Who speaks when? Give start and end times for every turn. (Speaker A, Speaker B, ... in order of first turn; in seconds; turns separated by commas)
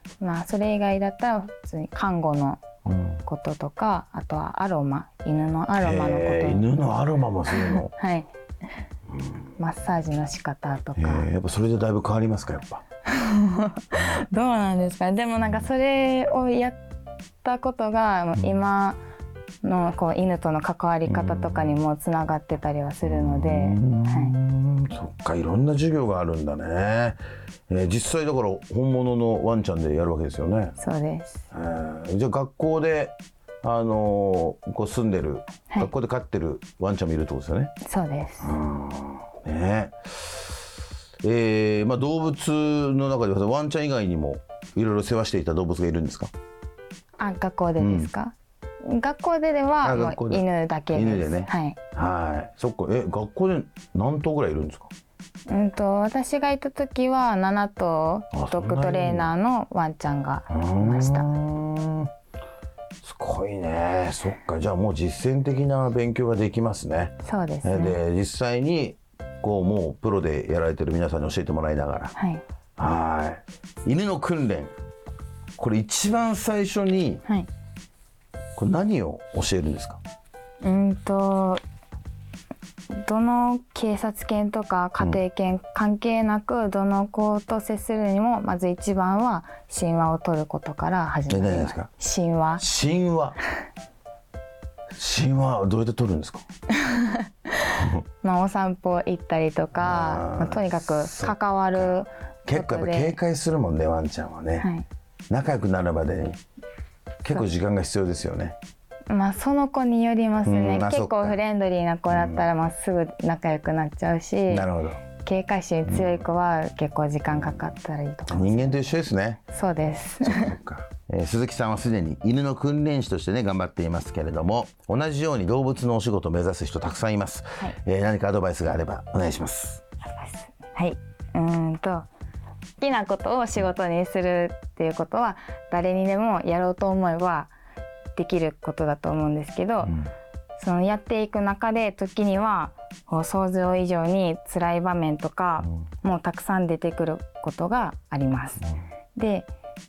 Speaker A: 0.2-2.6, Speaker B: 2.9-3.2, Speaker A: 3.3-6.7, Speaker B: 5.8-7.9, Speaker A: 7.6-8.3, Speaker A: 9.6-11.3, Speaker B: 11.0-12.8, Speaker A: 13.1-16.8, Speaker A: 17.4-19.0, Speaker A: 19.6-24.3, Speaker B: 21.1-21.8, Speaker B: 23.0-30.7, Speaker A: 30.8-31.4, Speaker B: 31.5-37.7, Speaker A: 37.8-38.5, Speaker B: 38.4-40.4, Speaker B: 41.2-46.3, Speaker A: 47.2-51.8, Speaker B: 47.8-48.1, Speaker B: 49.8-54.9, Speaker A: 55.5-61.3, Speaker B: 58.3-59.3, Speaker B: 60.5-62.1, Speaker B: 63.0-72.1, Speaker A: 67.2-68.0, Speaker A: 72.2-72.4, Speaker B: 72.8-74.7, Speaker B: 75.6-77.2, Speaker B: 78.6-80.0, Speaker A: 80.6-81.6, Speaker A: 83.0-92.6, Speaker B: 91.3-91.9, Speaker B: 92.6-93.4, Speaker B: 95.0-96.4, Speaker A: 96.8-97.3, Speaker A: 98.2-103.2, Speaker B: 99.8-104.7, Speaker A: 104.6-104.9, Speaker B: 105.3-106.4, Speaker B: 107.2-108.6, Speaker A: 109.1-114.7, Speaker B: 110.5-111.4, Speaker B: 112.1-112.5, Speaker B: 114.5-115.0, Speaker A: 115.2-118.8, Speaker B: 115.9-116.2, Speaker B: 118.3-119.4, Speaker A: 119.5-120.5, Speaker B: 120.2-129.8, Speaker A: 130.2-132.1, Speaker A: 132.8-137.5, Speaker A: 138.2-140.0, Speaker A: 140.6-148.7, Speaker A: 149.2-149.5